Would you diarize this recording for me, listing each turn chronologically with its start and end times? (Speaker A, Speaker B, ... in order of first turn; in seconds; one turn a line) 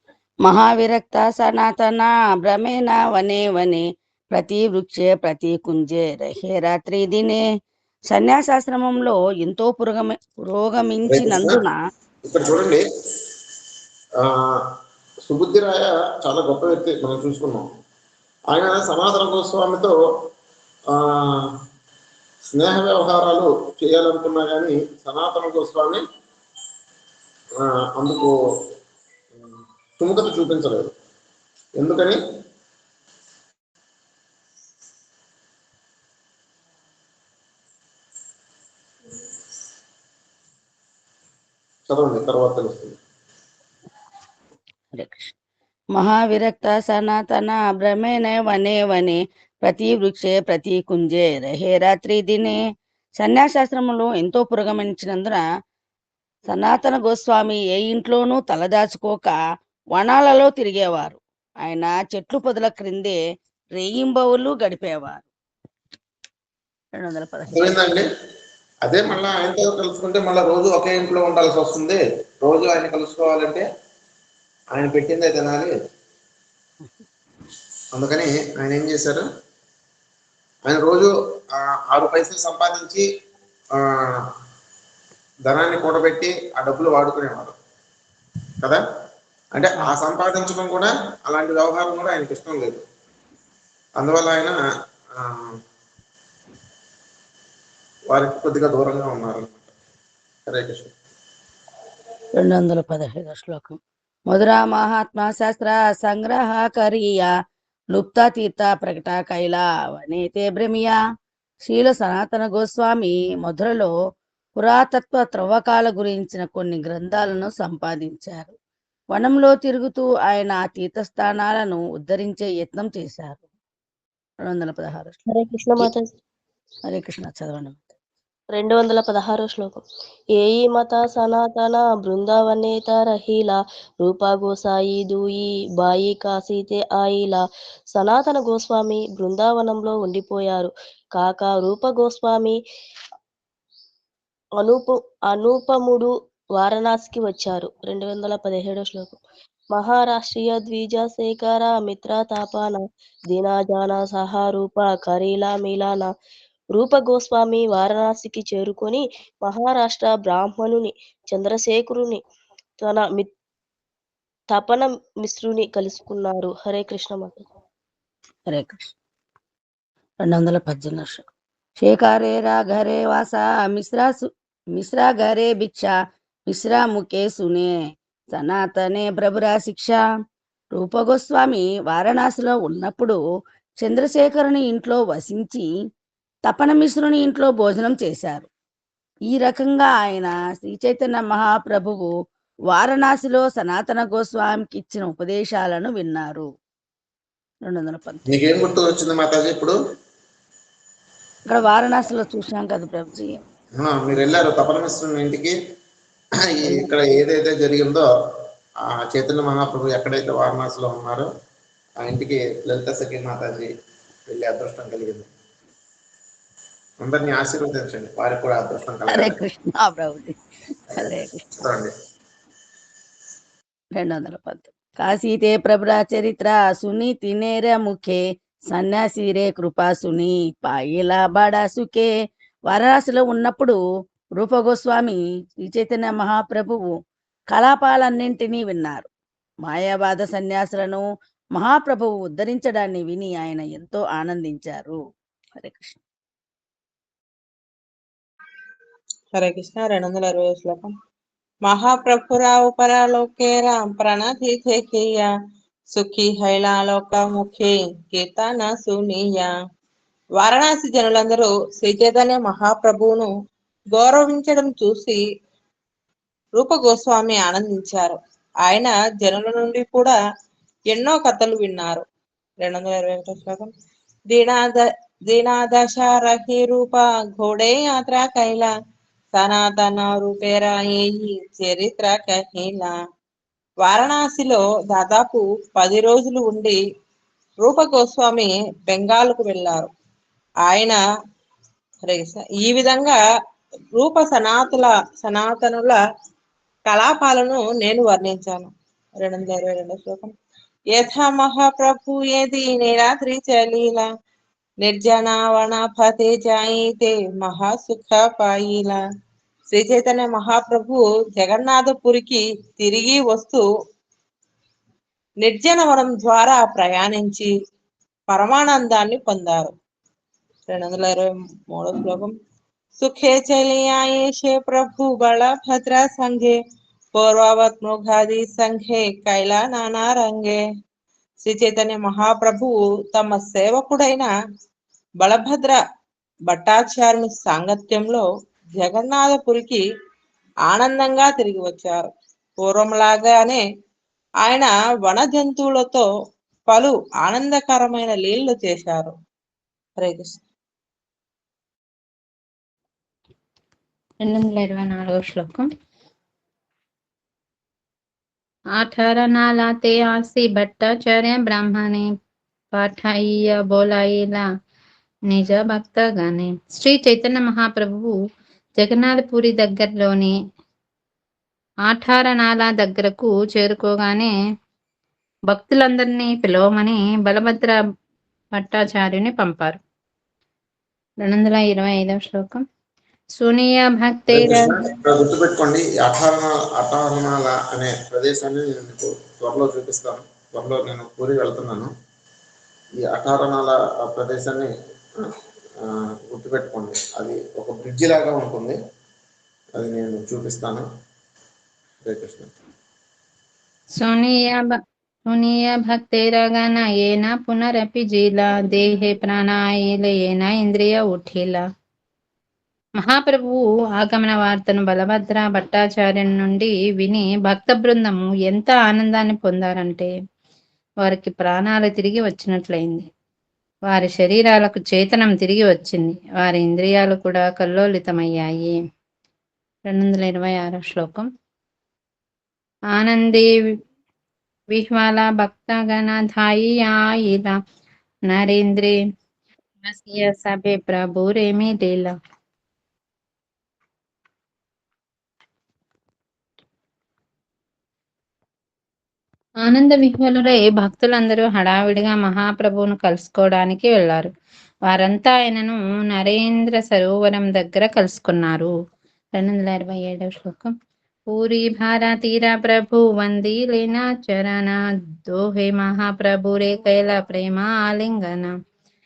Speaker A: 0.4-7.4
Speaker A: 8.1-11.8
Speaker B: 11.1-11.6
Speaker B: 12.2-12.8
Speaker B: 14.2-14.5
Speaker B: 15.3-17.7
Speaker B: 18.5-19.9
Speaker B: 22.5-26.0
Speaker B: 27.6-28.3
Speaker B: 29.4-30.9
Speaker B: 31.8-32.2
Speaker B: 41.9-43.0
Speaker A: 44.9-45.3
Speaker A: 45.9-52.6
Speaker A: 53.2-55.4
Speaker A: 56.5-59.3
Speaker A: 59.9-63.2
Speaker A: 63.8-65.2
Speaker A: 67.0-67.8
Speaker B: 67.5-68.1
Speaker B: 68.8-73.6
Speaker B: 74.7-75.7
Speaker B: 77.9-79.2
Speaker B: 80.7-83.0
Speaker B: 83.8-84.2
Speaker B: 85.5-87.5
Speaker B: 89.5-92.8
Speaker B: 94.0-94.6
Speaker B: 95.2-95.5
Speaker B: 98.1-99.7
Speaker B: 100.5-100.9
Speaker A: 102.3-103.8
Speaker A: 104.3-107.3
Speaker A: 107.9-111.0
Speaker A: 111.7-113.9
Speaker A: 114.6-118.5
Speaker A: 119.1-123.4
Speaker A: 124.5-125.2
Speaker C: 125.3-126.1
Speaker A: 126.9-127.9
Speaker C: 128.5-129.8
Speaker C: 130.4-142.6
Speaker C: 144.6-149.2
Speaker C: 149.7-156.1
Speaker C: 156.7-162.2
Speaker C: 162.8-163.3
Speaker C: 164.5-167.4
Speaker A: 168.5-168.9
Speaker A: 170.2-171.2
Speaker A: 171.8-175.9
Speaker A: 176.5-177.7
Speaker A: 178.3-180.0
Speaker A: 180.7-183.2
Speaker A: 183.8-185.7
Speaker A: 186.5-188.5
Speaker A: 189.3-192.1
Speaker A: 192.7-196.5
Speaker A: 197.7-198.2
Speaker B: 198.3-199.8
Speaker A: 201.5-203.4
Speaker B: 203.8-205.6
Speaker B: 206.4-208.1
Speaker B: 208.9-211.3
Speaker B: 212.0-213.7
Speaker B: 214.3-215.3
Speaker B: 217.0-219.4
Speaker A: 219.1-220.4
Speaker A: 220.9-221.4
Speaker B: 221.6-221.9
Speaker A: 223.9-232.1
Speaker A: 232.7-233.8
Speaker A: 234.4-236.8
Speaker A: 237.5-239.1
Speaker A: 239.7-241.0
Speaker A: 241.6-245.0
Speaker A: 245.5-246.0
Speaker D: 249.3-250.9
Speaker D: 251.6-255.3
Speaker D: 255.9-259.5
Speaker D: 260.4-263.3
Speaker D: 263.9-265.2
Speaker D: 266.6-270.2
Speaker D: 270.9-272.0
Speaker D: 272.6-273.7
Speaker D: 274.3-278.7
Speaker D: 279.3-282.9
Speaker D: 283.8-286.8
Speaker D: 287.6-289.9
Speaker D: 290.6-291.0
Speaker D: 292.1-293.2
Speaker D: 293.9-296.0
Speaker D: 296.9-300.3
Speaker D: 300.9-304.1
Speaker D: 304.8-309.0
Speaker D: 309.7-313.7
Speaker D: 315.4-317.5
Speaker D: 318.3-319.7
Speaker D: 320.7-322.3
Speaker D: 323.0-326.6
Speaker D: 327.1-330.6
Speaker D: 331.4-334.3
Speaker D: 335.2-335.8
Speaker D: 336.5-339.8
Speaker D: 340.7-342.0
Speaker D: 342.6-343.6
Speaker D: 344.4-346.1
Speaker D: 346.7-349.1
Speaker D: 350.0-350.4
Speaker E: 354.2-355.7
Speaker E: 358.8-362.1
Speaker E: 362.7-364.4
Speaker E: 365.3-368.1
Speaker E: 368.8-370.3
Speaker E: 371.9-374.3
Speaker E: 375.5-377.7
Speaker E: 378.6-379.8
Speaker E: 381.2-382.6
Speaker E: 383.4-384.6
Speaker B: 384.3-391.9
Speaker B: 393.0-394.7
Speaker B: 395.9-398.8
Speaker B: 399.8-400.9
Speaker B: 402.0-402.5
Speaker E: 404.0-404.8
Speaker E: 405.3-411.6
Speaker E: 413.0-420.1
Speaker E: 421.0-423.1
Speaker E: 423.9-428.8
Speaker E: 429.9-431.3
Speaker E: 432.9-433.5
Speaker E: 434.7-437.6
Speaker E: 438.3-438.9
Speaker E: 439.8-442.1
Speaker E: 449.6-454.3
Speaker E: 454.9-458.7
Speaker E: 459.4-460.7
Speaker E: 461.3-468.5